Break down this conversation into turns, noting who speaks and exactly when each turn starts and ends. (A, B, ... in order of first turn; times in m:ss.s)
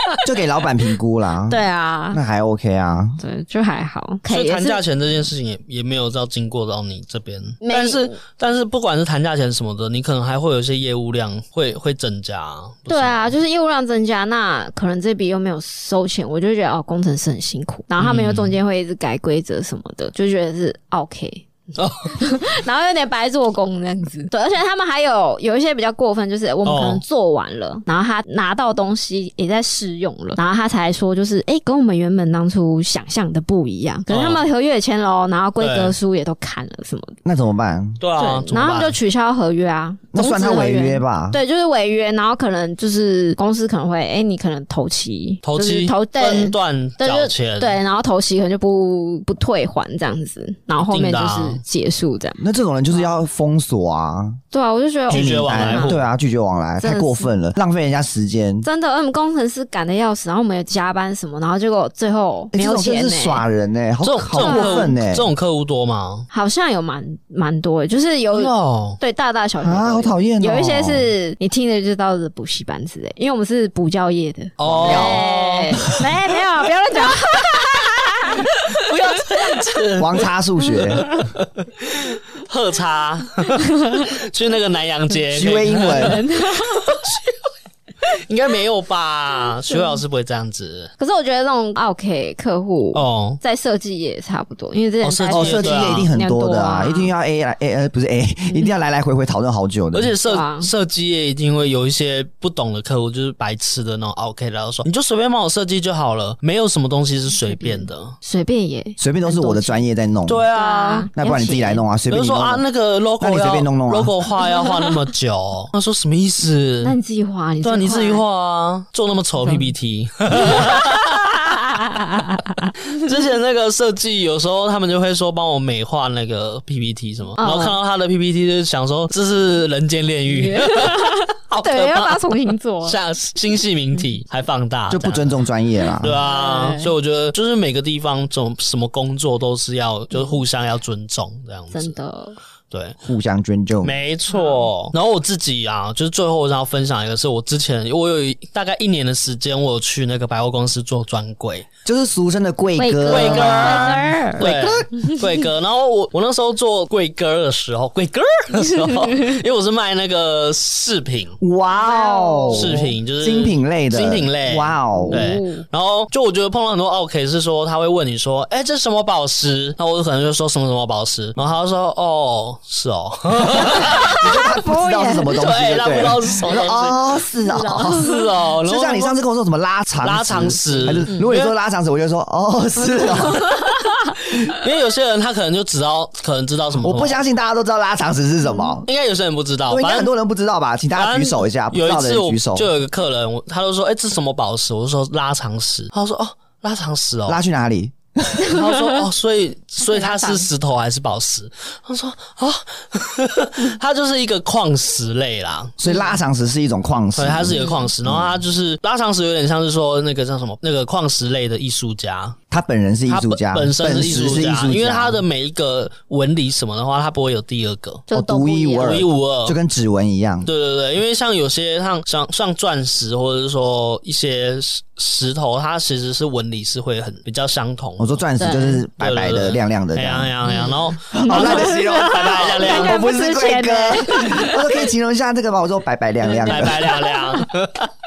0:00.2-0:03.2 A
0:01.5-0:02.2 B
0:03.2-0:04.8 B
0:04.3-0:13.3 C
0:07.6-0:08.2 B
0:12.9-0:21.5 B
0:18.0-0:18.6 C
0:21.8-0:22.2 C
0:22.1-0:37.2 B
0:26.6-0:27.0 C
0:34.1-0:34.4 C
0:35.6-0:36.0 C
0:37.2-0:38.0 A
0:38.0-0:39.0 C
0:38.2-0:52.4 B
0:40.1-0:41.4 A
0:45.4-0:47.8 C
0:50.8-0:51.6 C
0:52.4-0:54.4 A
0:54.5-0:56.0 B
0:55.1-0:56.0 C
0:55.1-0:58.7 A
0:56.8-0:57.3 B
0:58.6-1:03.4 B
1:02.5-1:05.3 A
1:04.0-1:06.3 C
1:04.4-1:05.0 B
1:06.3-1:18.8 B
1:08.3-1:09.0 C
1:09.6-1:11.1 A
1:14.6-1:15.9 C
1:14.6-1:15.2 A
1:17.5-1:17.9 C
1:18.4-1:27.4 C
1:20.0-1:21.0 A
1:23.6-1:24.0 B
1:25.3-1:26.2 A
1:25.8-1:27.1 B
1:28.1-1:30.9 C
1:29.7-1:30.0 B
1:31.0-1:37.1 B
1:32.9-1:33.4 C
1:35.0-1:36.1 C
1:35.3-1:40.1 A
1:39.9-1:48.2 C
1:40.2-1:40.7 B
1:47.5-1:49.9 B
1:49.0-1:50.4 A
1:50.3-1:51.1 C
1:50.5-1:51.8 B
1:51.1-1:52.6 A
1:52.1-1:57.0 C
1:53.2-1:54.1 A
1:54.4-1:55.0 B
1:56.8-1:58.2 B
1:57.6-2:01.6 C
1:59.4-1:59.7 B
2:00.3-2:02.9 B
2:02.9-2:15.4 C
2:07.4-2:07.8 B
2:10.3-2:13.0 B
2:14.9-2:16.2 A
2:16.0-2:21.9 C
2:16.1-2:16.9 B
2:20.1-2:20.4 B
2:21.7-2:22.4 B
2:22.7-2:23.0 C
2:23.0-2:24.0 A
2:23.8-2:31.7 C
2:24.3-2:24.7 B
2:31.8-2:34.9 A
2:32.8-2:35.3 B
2:33.1-2:41.4 C
2:38.6-2:38.9 B
2:41.4-2:45.2 A
2:41.7-2:42.8 B
2:42.5-2:54.2 C
2:45.0-2:45.6 B
2:53.5-2:58.0 A
2:53.6-2:55.4 B
2:55.3-2:57.0 C
2:56.5-2:56.7 B
2:57.4-2:58.3 B
2:57.9-2:59.2 C
2:58.6-3:03.4 A
3:00.0-3:01.5 C
3:00.7-3:01.3 B
3:03.2-3:04.0 B
3:04.5-3:07.2 C
3:06.8-3:08.9 A
3:08.9-3:10.1 C
3:09.7-3:12.7 A
3:10.9-3:17.4 C
3:17.3-3:18.5 A
3:18.4-3:19.0 B
3:18.4-3:25.8 C
3:19.8-3:20.5 B
3:25.8-3:28.4 A
3:25.8-3:26.2 B
3:27.1-3:32.4 C
3:27.5-3:27.9 B
3:32.5-3:35.2 A
3:33.1-3:38.0 C
3:38.1-3:39.0 B
3:38.1-3:40.5 A
3:38.8-3:39.6 C
3:40.4-3:48.2 C
3:48.0-3:50.3 A
3:48.4-3:48.8 B
3:49.0-3:53.0 C
3:50.4-3:54.9 B
3:51.1-3:56.9 A
3:56.2-3:57.4 B
3:56.5-3:57.9 C